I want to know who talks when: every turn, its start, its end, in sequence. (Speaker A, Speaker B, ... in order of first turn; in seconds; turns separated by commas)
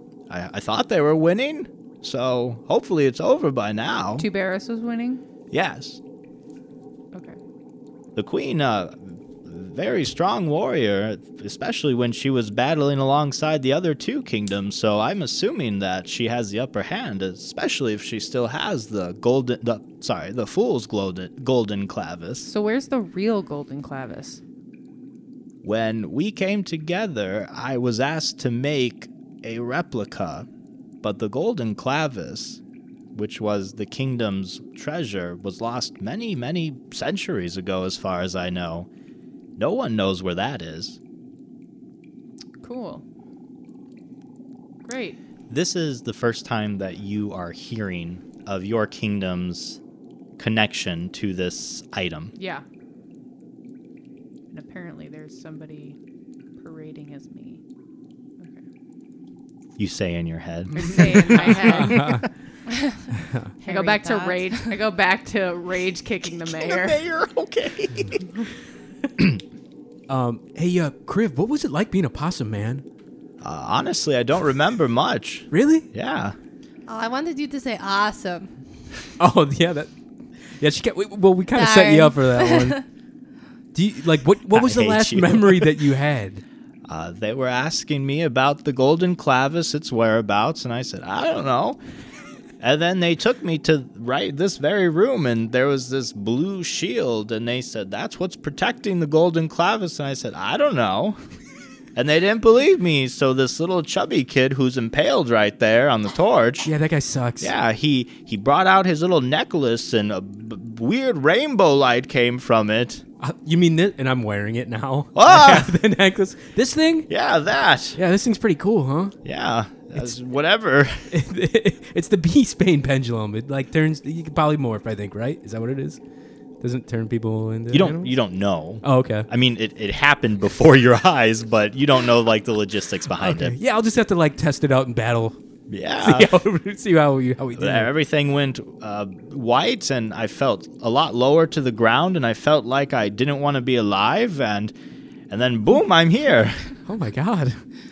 Speaker A: 0.3-4.2, Speaker B: 4.2-5.2, Speaker A: 5.5-6.0, Speaker B: 7.1-7.4, Speaker A: 8.1-22.5, Speaker B: 22.4-24.4, Speaker A: 25.6-30.5, Speaker A: 31.0-32.6, Speaker A: 33.1-38.9, Speaker A: 39.6-41.0, Speaker B: 42.6-43.0, Speaker B: 44.9-45.2, Speaker A: 45.5-49.8, Speaker A: 50.4-52.3, Speaker B: 52.4-52.6, Speaker B: 54.5-56.0, Speaker B: 56.6-57.6, Speaker A: 59.8-62.2, Speaker B: 60.7-62.0, Speaker C: 60.8-62.2, Speaker D: 62.7-63.0, Speaker C: 63.2-63.5, Speaker D: 63.6-64.7, Speaker B: 63.6-67.0, Speaker A: 66.3-68.3, Speaker C: 70.1-72.8, Speaker A: 73.4-76.3, Speaker C: 75.5-75.8, Speaker D: 76.9-78.5, Speaker C: 79.2-79.9, Speaker C: 80.6-82.8, Speaker D: 81.5-82.8, Speaker C: 83.7-86.4, Speaker A: 84.5-85.8, Speaker A: 86.9-91.8, Speaker A: 92.6-101.2, Speaker A: 102.0-106.7, Speaker C: 106.7-107.5, Speaker A: 107.4-113.0, Speaker C: 113.2-117.1, Speaker A: 115.2-115.7, Speaker A: 117.1-118.0, Speaker C: 118.0-119.2, Speaker A: 119.2-121.0, Speaker C: 121.1-126.0, Speaker C: 126.6-128.2, Speaker A: 127.7-133.6, Speaker C: 128.8-129.3, Speaker C: 133.2-135.4, Speaker A: 135.7-136.4, Speaker C: 136.0-137.9, Speaker A: 137.6-144.7, Speaker A: 145.3-146.6, Speaker C: 146.9-147.6